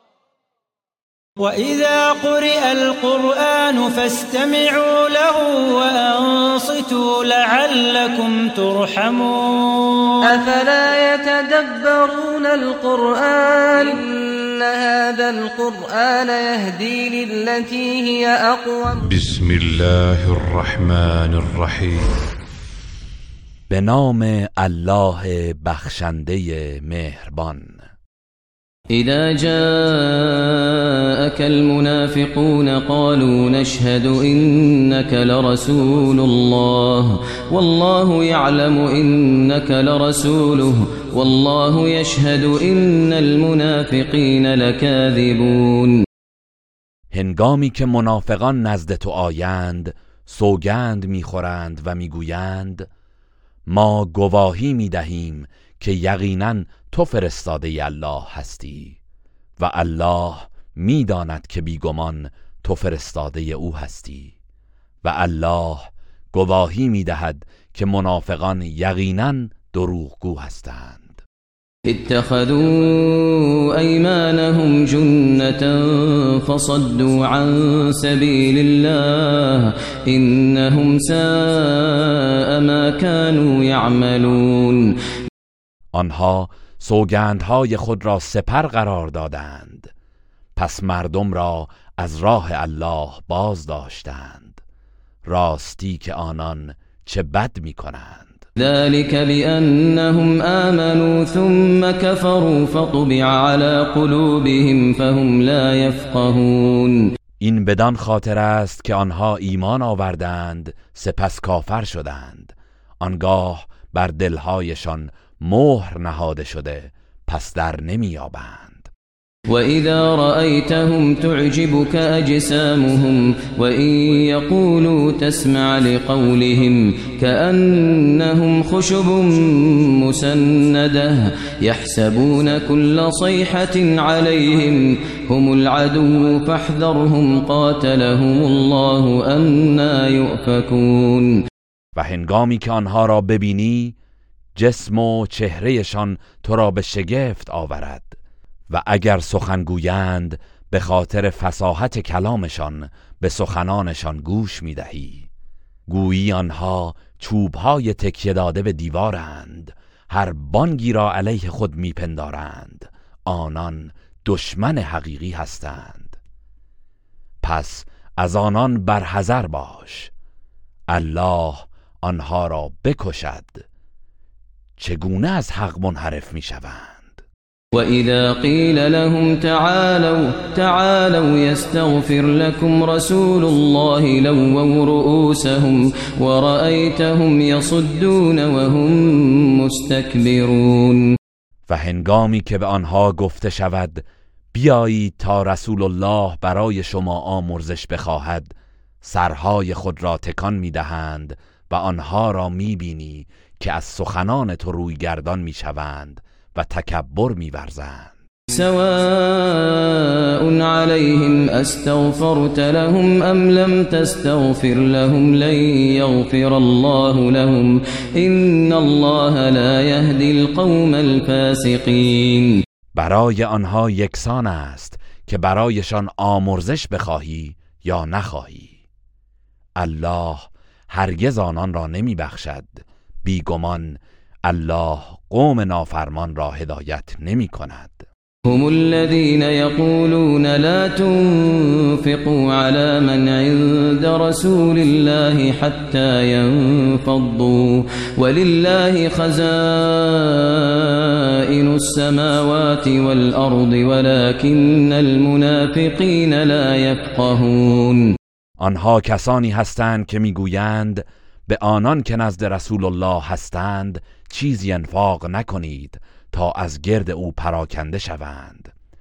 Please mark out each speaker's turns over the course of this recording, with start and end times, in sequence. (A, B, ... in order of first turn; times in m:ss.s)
0:01.4-0:10.4 A
0:10.2-0:19.1 B
0:19.0-0:22.1 C
0:23.7-0:27.8 D
0:28.9-0:46.0 E
0:47.1-0:52.9 D
0:53.7-0:59.0 D
0:59.6-1:04.3 D
1:05.0-1:11.2 D
1:11.9-1:24.9 E
1:25.9-1:29.9 D
1:30.6-1:34.6 D
1:35.2-1:38.4 D
1:38.6-1:47.0 E
1:47.4-1:58.9 D
1:59.5-2:21.3 E
2:21.9-2:24.0 D
2:24.6-2:28.2 D
2:28.7-2:35.3 D
2:35.9-2:46.2 D
2:47.4-2:50.1 D
2:50.9-2:53.6 D
2:54.8-2:57.2 D
2:57.7-3:11.1 E
3:11.7-3:28.1 D
3:28.5-3:42.6 E
3:42.9-3:48.8 D
3:49.8-3:58.0 D
3:58.5-4:18.1 E
4:18.6-4:28.7 D